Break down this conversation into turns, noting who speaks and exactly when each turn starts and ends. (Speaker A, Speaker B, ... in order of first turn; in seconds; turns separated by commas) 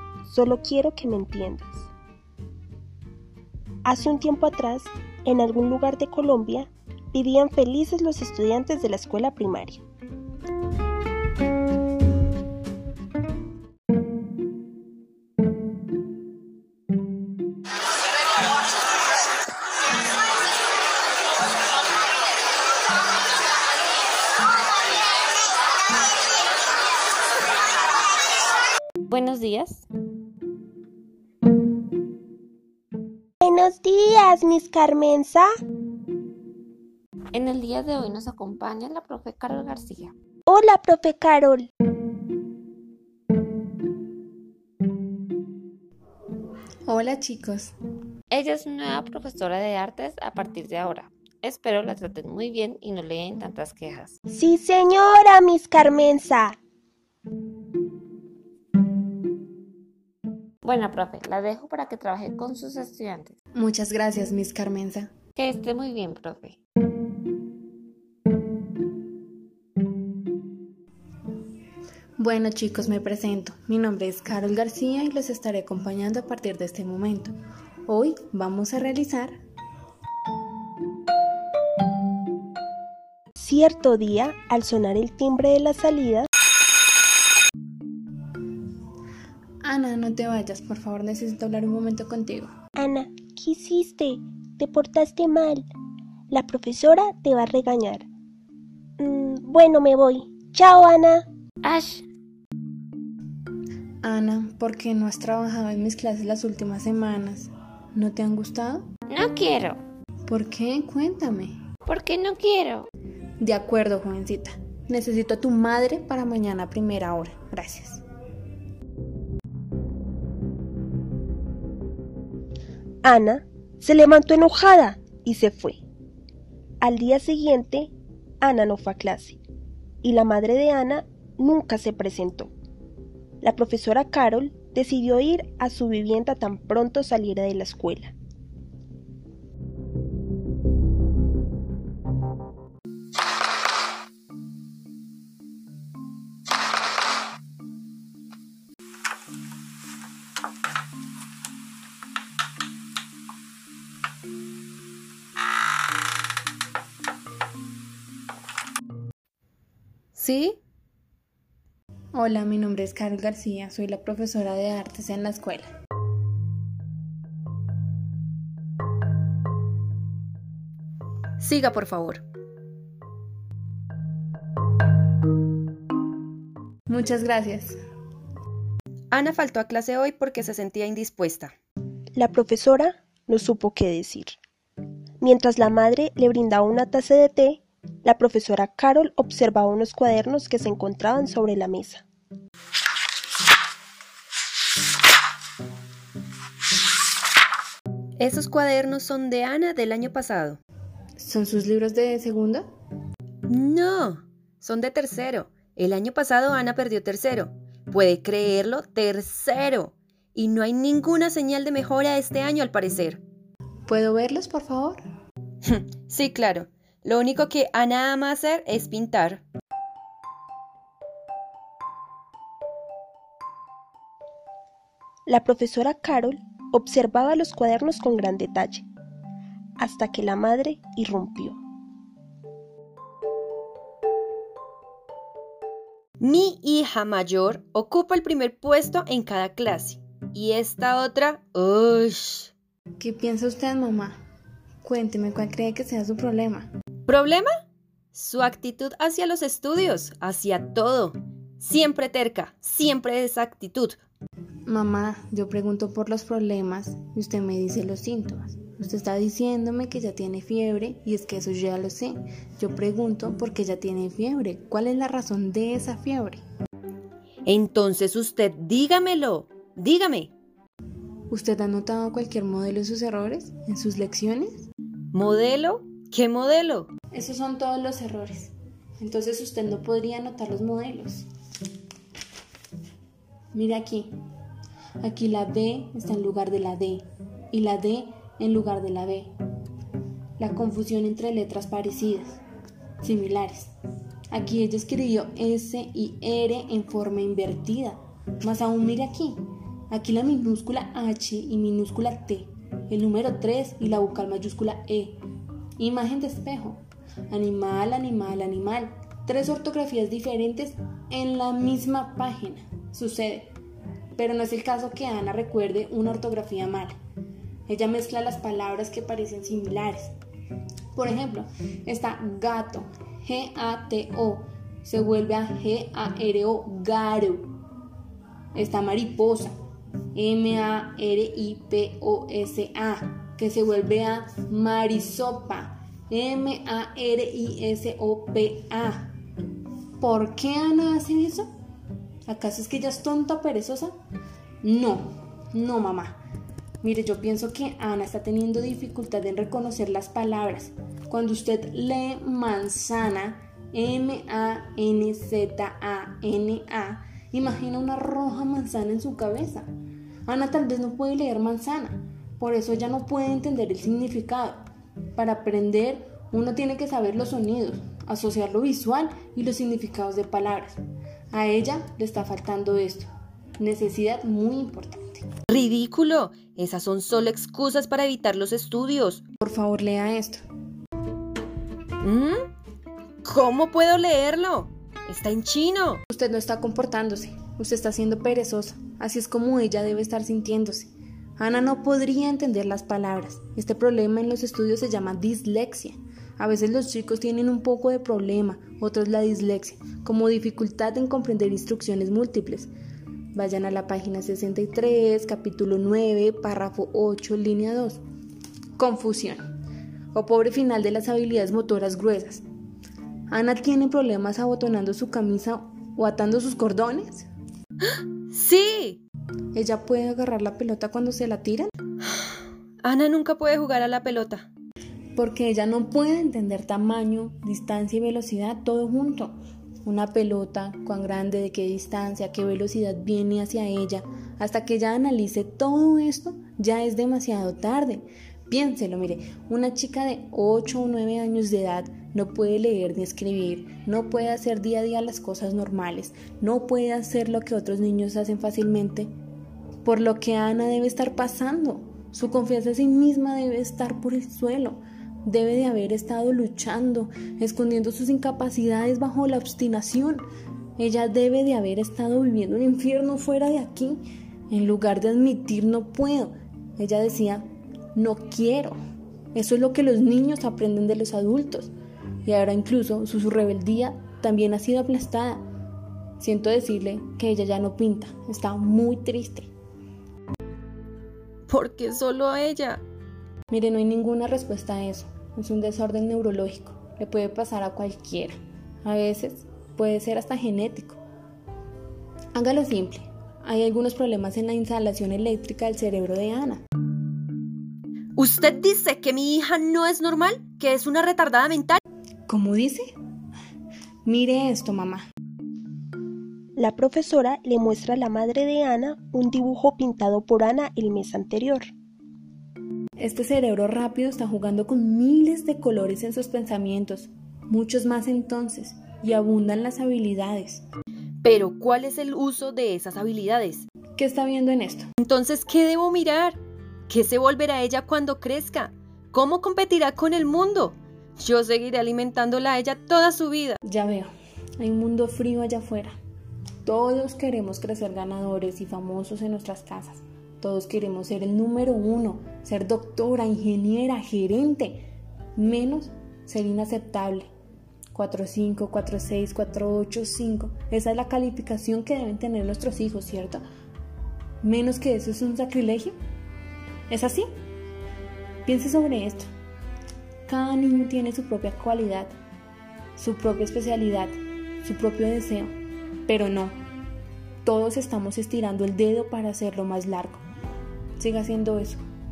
Speaker A: 0.2-1.9, Speaker A: 3.9-9.8, Speaker B: 29.1-29.9, Speaker A: 33.4-35.5, Speaker B: 37.3-40.1, Speaker A: 40.5-41.7, Speaker C: 46.9-47.8, Speaker B: 48.3-54.2, Speaker A: 54.3-56.6, Speaker B: 60.6-63.3, Speaker C: 63.6-65.1, Speaker B: 65.4-66.6, Speaker C: 72.2-77.3, Speaker C: 77.9-79.4, Speaker A: 83.4-86.3, Speaker C: 89.6-92.5, Speaker A: 92.8-95.7, Speaker A: 96.3-98.1, Speaker A: 99.0-101.3, Speaker B: 101.6-102.1, Speaker C: 104.0-108.9, Speaker B: 109.1-109.8, Speaker C: 110.3-111.6, Speaker B: 111.9-112.9, Speaker C: 113.4-118.0, Speaker A: 123.0-125.8, Speaker A: 126.8-129.4, Speaker A: 130.0-132.5, Speaker A: 133.4-138.2, Speaker D: 160.2-160.6, Speaker C: 162.1-165.7, Speaker D: 171.4-172.2, Speaker C: 176.9-177.8, Speaker D: 179.1-181.5, Speaker A: 182.2-184.4, Speaker A: 185.2-192.0, Speaker D: 198.2-200.6, Speaker C: 201.2-202.7, Speaker D: 203.5-213.2, Speaker C: 213.9-215.0, Speaker D: 215.7-219.4, Speaker A: 225.3-228.9, Speaker A: 229.8-231.6, Speaker D: 236.2-242.5, Speaker C: 243.0-244.2, Speaker C: 244.8-246.7, Speaker D: 247.1-247.5, Speaker D: 248.1-254.0, Speaker C: 254.7-266.4, Speaker D: 267.5-270.3, Speaker C: 271.3-274.7, Speaker D: 275.1-276.9, Speaker C: 277.1-281.2, Speaker C: 283.5-284.1, Speaker C: 285.0-289.3, Speaker C: 290.4-292.4, Speaker C: 293.0-293.7, Speaker C: 294.3-305.2, Speaker C: 305.8-313.5, Speaker C: 314.2-316.9, Speaker C: 317.7-320.1, Speaker C: 320.9-327.5, Speaker C: 328.5-329.5, Speaker C: 330.1-339.1, Speaker C: 340.0-341.5, Speaker C: 342.3-343.9, Speaker C: 344.6-346.2, Speaker C: 346.8-359.7, Speaker C: 360.3-364.6, Speaker C: 365.2-370.8, Speaker C: 371.3-375.2, Speaker D: 375.5-379.2, Speaker C: 379.4-380.4, Speaker D: 382.0-382.5, Speaker D: 383.2-386.0, Speaker C: 386.1-402.7, Speaker C: 403.3-408.0, Speaker C: 408.8-409.4, Speaker C: 410.1-412.4, Speaker C: 413.3-417.3, Speaker D: 417.9-419.0, Speaker C: 419.5-421.7, Speaker D: 422.8-424.5, Speaker C: 425.2-449.1, Speaker C: 449.8-460.2, Speaker C: 460.8-468.8, Speaker C: 469.3-471.7, Speaker C: 472.2-475.4, Speaker C: 476.2-479.5, Speaker D: 481.5-482.8, Speaker C: 483.5-491.0, Speaker C: 492.4-496.6, Speaker D: 498.2-501.8, Speaker C: 502.3-502.9, Speaker C: 504.1-505.1, Speaker A: 506.6-511.7, Speaker C: 513.0-520.6, Speaker D: 521.2-523.7, Speaker C: 524.0-524.9, Speaker D: 525.0-533.6, Speaker C: 533.6-536.0, Speaker C: 536.6-547.3, Speaker C: 547.9-553.4, Speaker C: 554.4-556.0, Speaker C: 556.9-557.3, Speaker C: 558.5-559.3, Speaker C: 560.3-562.1, Speaker C: 563.0-565.5, Speaker C: 566.1-566.6, Speaker C: 567.4-570.2, Speaker C: 571.0-571.8